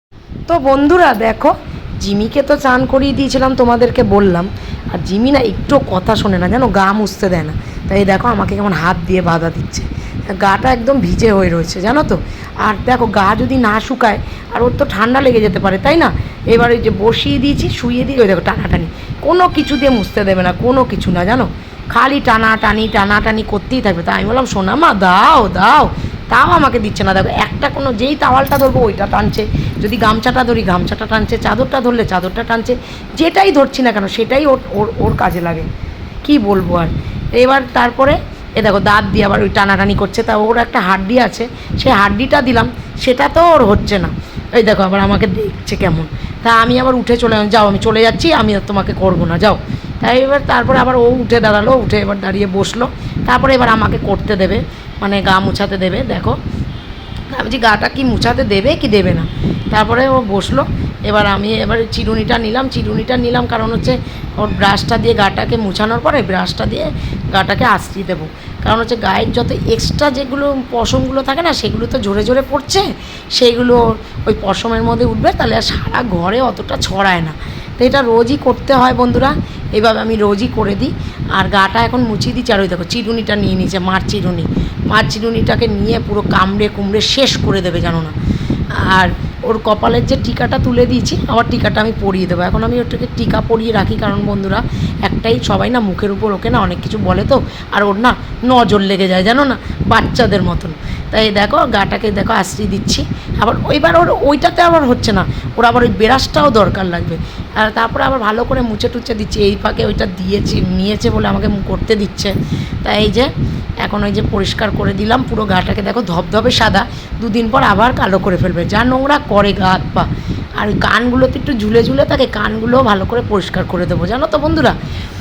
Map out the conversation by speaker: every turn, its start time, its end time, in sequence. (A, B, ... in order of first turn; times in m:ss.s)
0:00.5-0:35.7 A
0:36.2-0:56.4 A
0:57.3-1:28.2 A
1:28.7-2:04.8 A